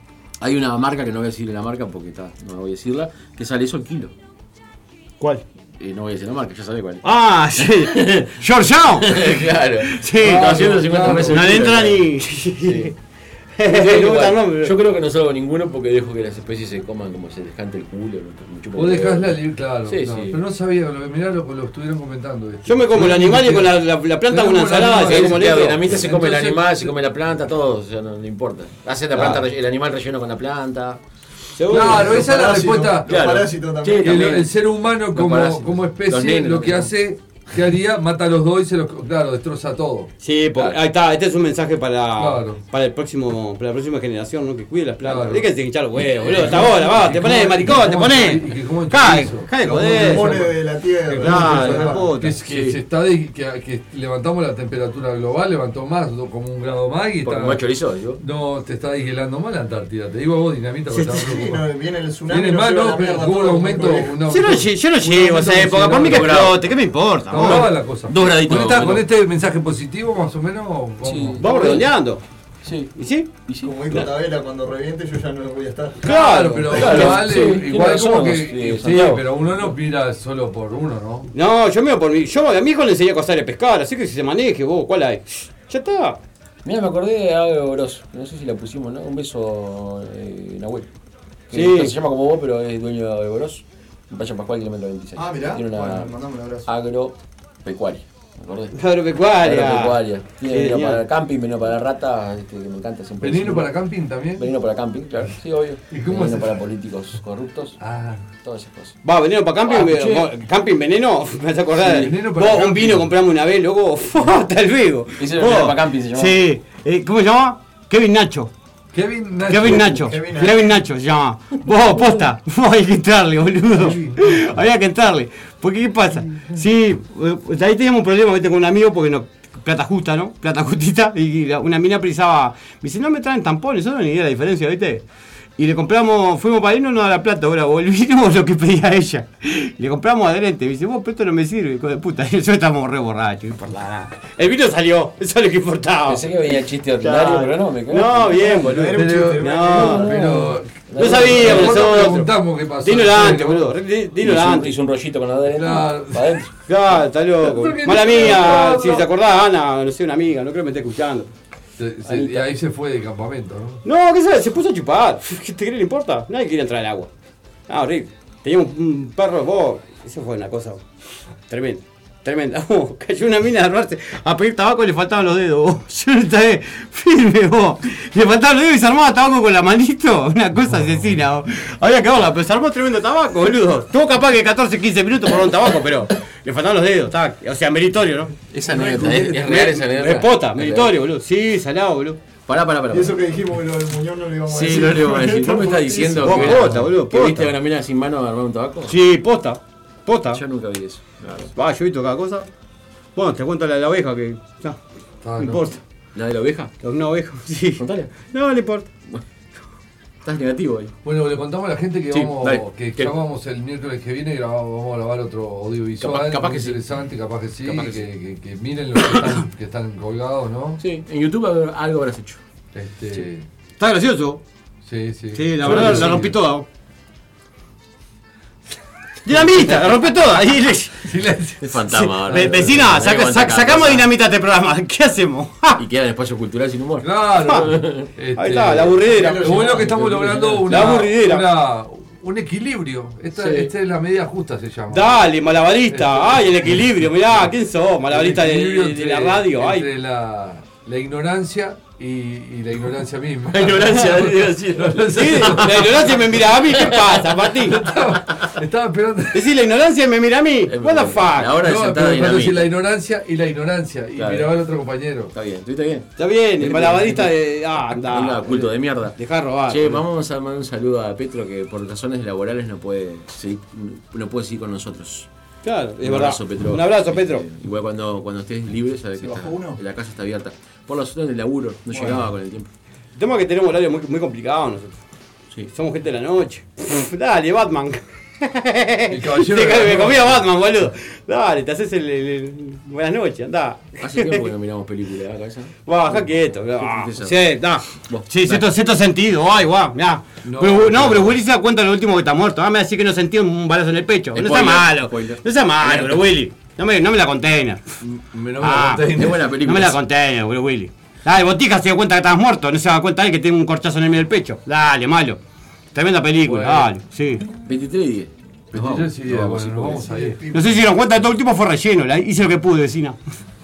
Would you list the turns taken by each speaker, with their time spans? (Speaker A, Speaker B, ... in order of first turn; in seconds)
Speaker A: 0.4-4.1, 5.8-7.0, 7.5-8.3, 8.9-12.0, 12.6-12.9, 13.6-20.4, 25.0-31.0, 33.0-36.9, 52.4-52.8, 57.2-58.2, 65.9-66.6, 67.4-69.1, 71.0-71.9, 72.6-72.9, 73.4-73.8, 76.6-79.7, 86.6-90.9, 91.5-98.8, 99.4-103.7, 104.3-107.8, 108.4-109.0, 109.7-110.3, 115.2-116.4, 146.1-148.9, 149.7-152.0, 154.2-156.5, 162.1-162.5, 188.5-190.9, 192.5-193.2, 194.5-198.9, 200.3-201.5, 206.1-206.7, 207.8-208.1, 210.2-210.9, 212.1-213.1, 216.0-216.8, 217.6-218.1, 220.8-222.4, 225.6-226.1, 231.6-234.1, 235.8-238.1, 239.1-241.0, 243.3-243.7, 253.5-257.4, 260.6-262.7, 264.1-264.6, 265.3-267.3, 267.9-275.3, 276.0-282.7, 294.0-298.6, 304.3-306.3, 309.1-310.0, 317.6-320.1
Speaker B: 7.0-12.9, 13.6-14.8, 22.6-25.9, 29.1-29.4, 31.6-32.4, 40.2-50.4, 51.2-52.3, 64.2-67.8, 71.4-72.2, 72.9-73.3, 76.0-76.9, 81.3-86.2, 91.5-92.0, 98.7-101.0, 109.0-118.5, 119.5-135.0, 135.6-146.3, 147.0-150.1, 151.0-154.7, 156.7-161.3, 163.8-167.1, 167.7-170.8, 171.5-188.4, 189.3-192.2, 195.9-197.5, 198.9-200.4, 201.5-202.5, 203.2-204.8, 205.4-205.8, 206.8-208.9, 223.8-224.4, 225.3-226.7, 229.2-231.0, 232.3-235.8, 238.3-239.7, 240.7-241.5, 244.9-249.9, 255.1-257.9, 259.3-261.6, 266.2-268.6, 269.1-270.0, 275.6-277.4, 283.2-285.0, 285.7-294.5, 295.9-307.8, 308.6-315.4, 315.9-317.4, 320.5-323.2
Speaker C: 10.2-11.7, 18.7-26.9, 31.7-33.3, 34.0-40.1, 42.2-42.6, 45.0-45.5, 46.2-57.6, 58.2-61.6, 62.3-66.5, 67.3-71.5, 76.0-81.3, 103.2-104.5, 105.9-106.6, 107.8-108.3, 111.8-113.1, 118.9-120.0, 123.8-124.4, 148.9-153.7, 155.5-156.4, 157.4-159.1, 161.8-163.8, 188.6-189.7, 205.2-205.6, 211.0-220.8, 222.7-223.4, 224.8-226.4, 231.0-232.6, 237.0-245.2, 245.9-246.5, 248.1-256.2, 257.6-259.5, 261.5-265.3, 289.1-290.4, 300.4-301.4, 308.0-309.4, 316.4-316.9, 318.7-320.4
Speaker D: 31.9-34.4, 49.6-52.1, 61.1-64.2, 73.6-76.1, 95.2-96.7, 119.8-120.7, 148.4-150.0, 192.9-196.6, 239.1-239.7, 279.2-279.8, 320.0-320.8